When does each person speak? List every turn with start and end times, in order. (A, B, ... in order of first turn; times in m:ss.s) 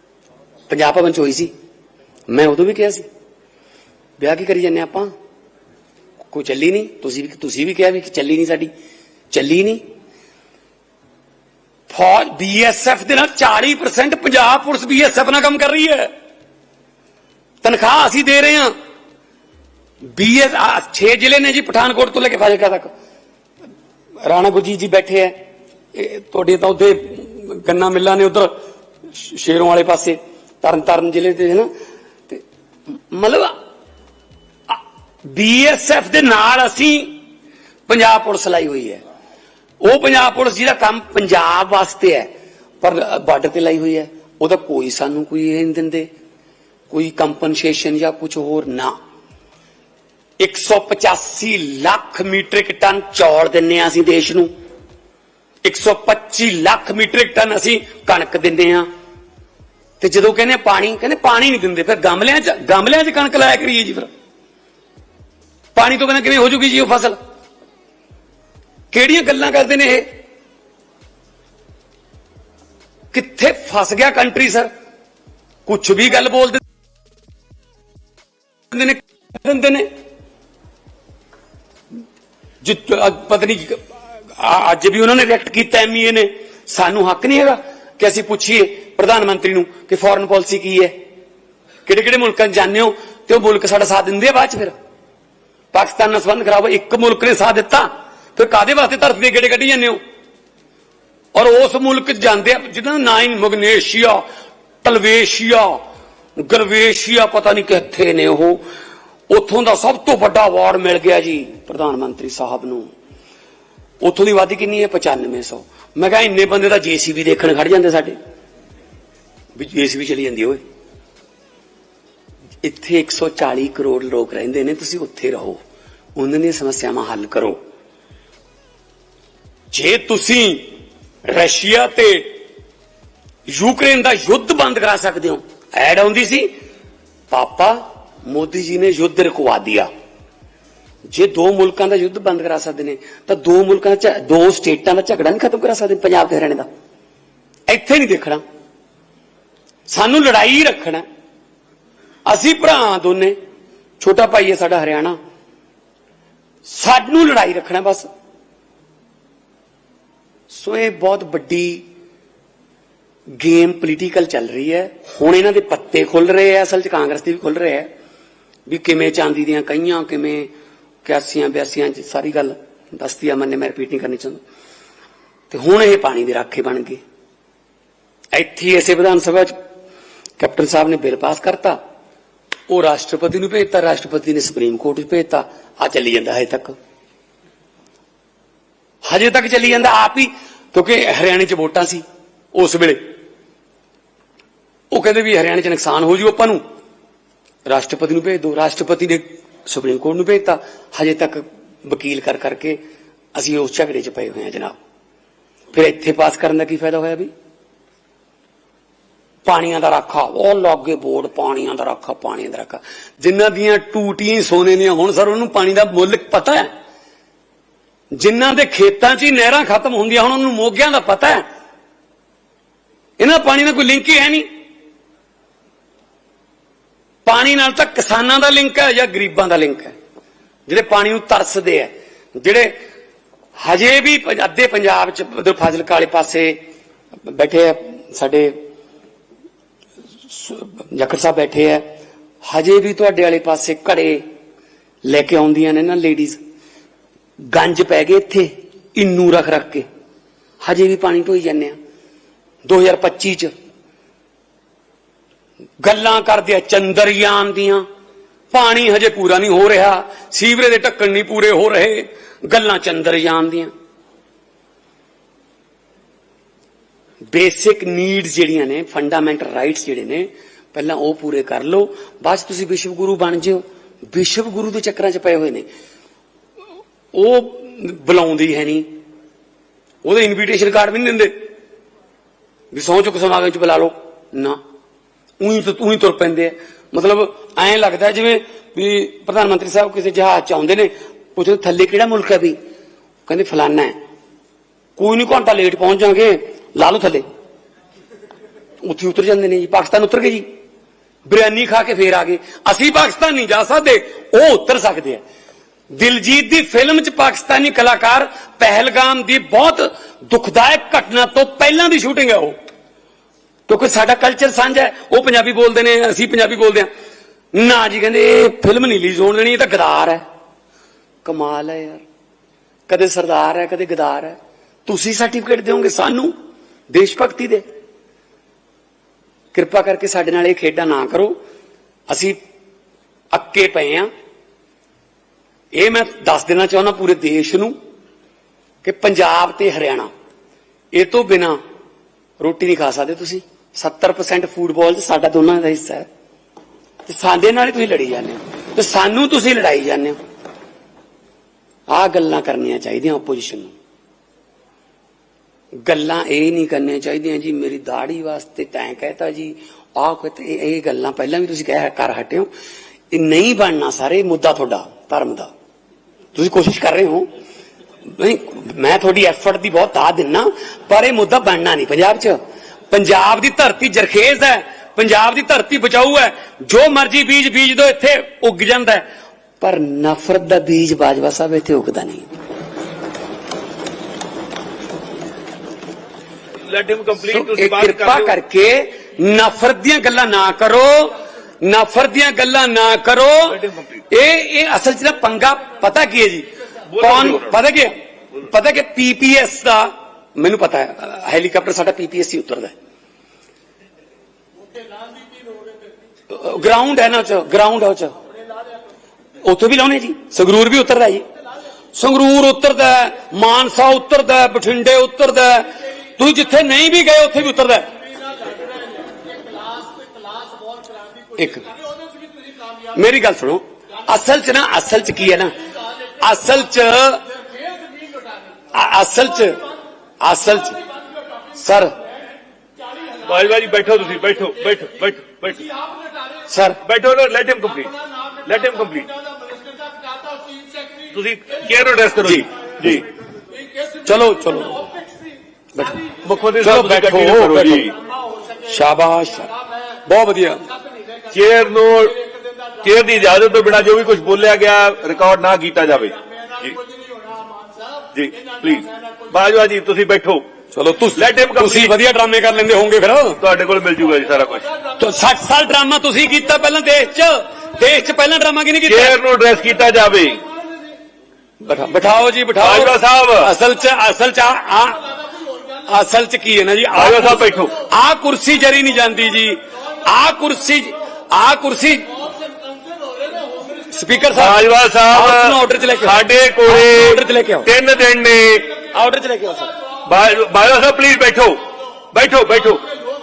0:00.7-0:01.5 A
0:02.3-0:03.0 A
0:04.2-0:05.1 A
0:06.3-0:08.7 A
0:09.3-0:09.8 A
0:11.9-0:16.1 A
0:17.6-0:18.7 A
0:20.1-0:22.9 A
0:24.2-0:25.4 A
0:25.9-0:28.6 A
0:29.1-0:31.7 A
0:33.1-0:33.6 A
0:34.7-0:37.2 A
0:37.9-0:39.0 A
0:39.8-0:46.1 A
0:46.9-0:49.0 A
0:50.4-0:54.5 A
0:55.6-0:58.9 A
1:00.0-1:04.1 A
1:05.7-1:07.2 A
1:08.9-1:10.1 A
1:13.1-1:14.7 A
1:15.6-1:16.6 A
1:18.7-1:19.9 A
1:22.6-1:31.0 A
1:31.8-1:34.7 A
1:35.7-1:40.0 A
1:41.3-1:44.2 A
1:44.8-1:45.8 A
1:46.4-1:48.6 A
1:49.3-1:52.9 A
1:54.0-1:58.2 A
1:59.5-2:00.6 A
2:02.6-2:05.6 A
2:06.2-2:07.6 A
2:09.7-2:10.7 A
2:11.2-2:12.3 A
2:13.5-2:16.5 A
2:17.3-2:19.9 A
2:21.1-2:26.6 A
2:27.7-2:28.4 A
2:29.9-2:31.0 A
2:32.2-2:33.4 A
2:34.0-2:35.2 A
2:36.6-2:38.1 A
2:40.5-2:41.8 A
2:43.4-2:47.9 A
2:48.7-2:50.5 A
2:51.0-2:54.4 A
2:55.5-2:57.0 A
2:58.3-2:59.6 A
3:00.4-3:01.8 A
3:02.7-3:06.7 A
3:09.1-3:12.0 A
3:12.5-3:13.0 A
3:14.9-3:16.6 A
3:17.6-3:22.8 A
3:23.3-3:24.8 A
3:25.7-3:27.3 A
3:29.4-3:36.7 A
3:38.1-3:41.4 A
3:43.2-3:44.5 A
3:47.2-3:49.9 A
3:50.7-3:52.7 A
3:53.6-3:56.6 A
3:57.2-3:58.6 A
4:00.3-4:01.8 A
4:02.4-4:04.2 A
4:05.0-4:06.4 A
4:07.5-4:09.8 A
4:10.6-4:11.8 A
4:12.6-4:13.5 A
4:15.8-4:17.8 A
4:18.5-4:23.7 A
4:27.3-4:35.6 A
4:37.1-4:38.9 A
4:40.0-4:41.3 A
4:42.7-4:44.6 A
4:45.4-4:52.6 A
4:53.3-4:54.0 A
4:55.0-4:57.2 A
4:58.8-5:00.4 A
5:01.2-5:05.2 A
5:05.9-5:12.5 A
5:13.7-5:16.9 A
5:17.5-5:20.2 A
5:21.2-5:22.0 A
5:22.9-5:26.3 A
5:26.9-5:27.6 A
5:29.5-5:31.4 A
5:32.1-5:32.4 A
5:33.3-5:34.1 A
5:35.7-5:37.7 A
5:38.8-5:40.1 A
5:40.9-5:41.6 A
5:42.4-5:46.0 A
5:47.0-5:50.2 A
5:51.9-5:53.7 A
5:55.8-6:02.5 A
6:03.1-6:05.5 A
6:06.3-6:07.3 A
6:08.1-6:12.4 A
6:12.9-6:19.0 A
6:19.6-6:22.3 A
6:26.6-6:28.3 B
6:27.3-6:42.7 A
6:33.5-6:34.0 B
6:36.9-6:37.6 B
6:46.3-6:48.1 A
6:49.4-6:51.2 A
6:51.9-6:58.0 A
7:01.4-7:01.7 A
7:02.9-7:05.5 A
7:06.2-7:07.3 A
7:08.7-7:09.6 A
7:10.2-7:10.8 A
7:11.5-7:12.0 A
7:13.2-7:15.7 B
7:16.5-7:16.8 A
7:16.8-7:19.1 B
7:21.1-7:23.1 B
7:24.0-7:24.9 A
7:25.7-7:26.0 A
7:26.1-7:28.0 B
7:26.6-7:27.9 A
7:28.6-7:29.5 A
7:30.0-7:30.6 A
7:31.3-7:32.2 B
7:32.8-7:36.8 B
7:38.1-7:40.4 B
7:40.7-7:43.4 A
7:41.2-7:41.9 B
7:43.4-7:44.7 B
7:45.0-7:49.2 A
7:48.9-7:50.4 B
7:51.6-7:55.1 A
7:52.6-7:53.5 B
7:55.8-8:02.1 A
7:56.9-7:57.8 B
8:03.8-8:07.7 A
8:04.3-8:08.7 B
8:08.9-8:09.7 A
8:10.0-8:12.8 B